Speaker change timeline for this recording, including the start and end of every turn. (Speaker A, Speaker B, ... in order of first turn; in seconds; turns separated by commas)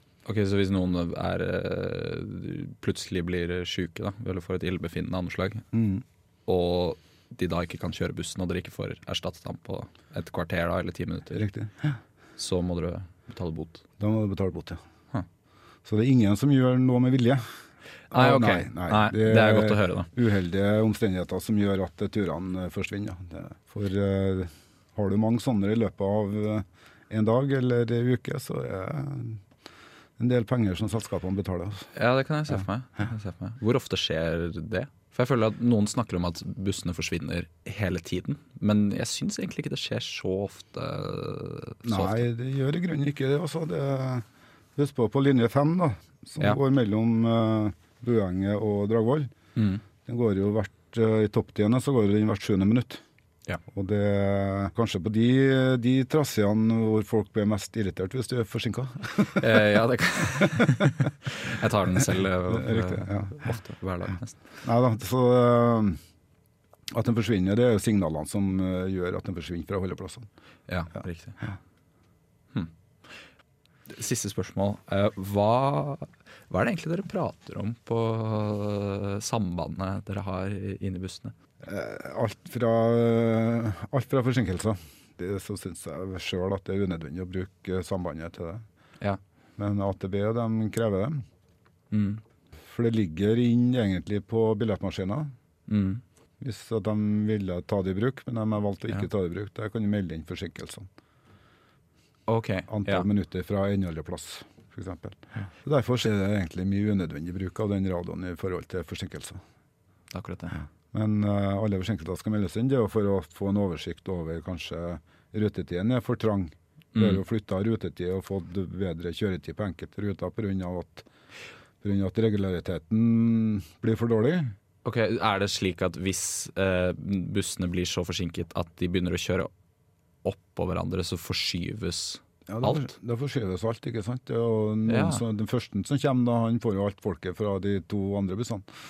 Speaker A: 0.2-5.6, Speaker B: 5.7-6.0, Speaker A: 6.5-11.4, Speaker B: 11.3-12.0, Speaker A: 12.4-13.8, Speaker B: 14.0-14.8, Speaker B: 15.8-17.4, Speaker B: 18.1-29.4, Speaker A: 18.1-20.1, Speaker B: 30.2-31.9, Speaker A: 31.9-42.2, Speaker B: 41.8-49.3, Speaker A: 49.5-49.8, Speaker B: 50.0-53.0, Speaker B: 53.7-60.9, Speaker A: 59.4-64.3, Speaker B: 62.0-63.6, Speaker B: 64.6-66.0, Speaker B: 66.9-70.3, Speaker A: 70.7-71.4, Speaker A: 73.9-81.3, Speaker B: 81.6-88.6, Speaker B: 89.6-91.2, Speaker A: 91.9-92.2, Speaker B: 92.7-95.3, Speaker A: 95.7-96.0, Speaker B: 96.4-100.9, Speaker A: 102.3-103.1, Speaker B: 102.7-109.4, Speaker A: 110.1-110.6, Speaker B: 110.9-121.1, Speaker A: 116.9-117.2, Speaker B: 121.8-124.5, Speaker A: 124.8-129.5, Speaker A: 130.2-132.9, Speaker B: 132.5-138.7, Speaker A: 134.9-135.2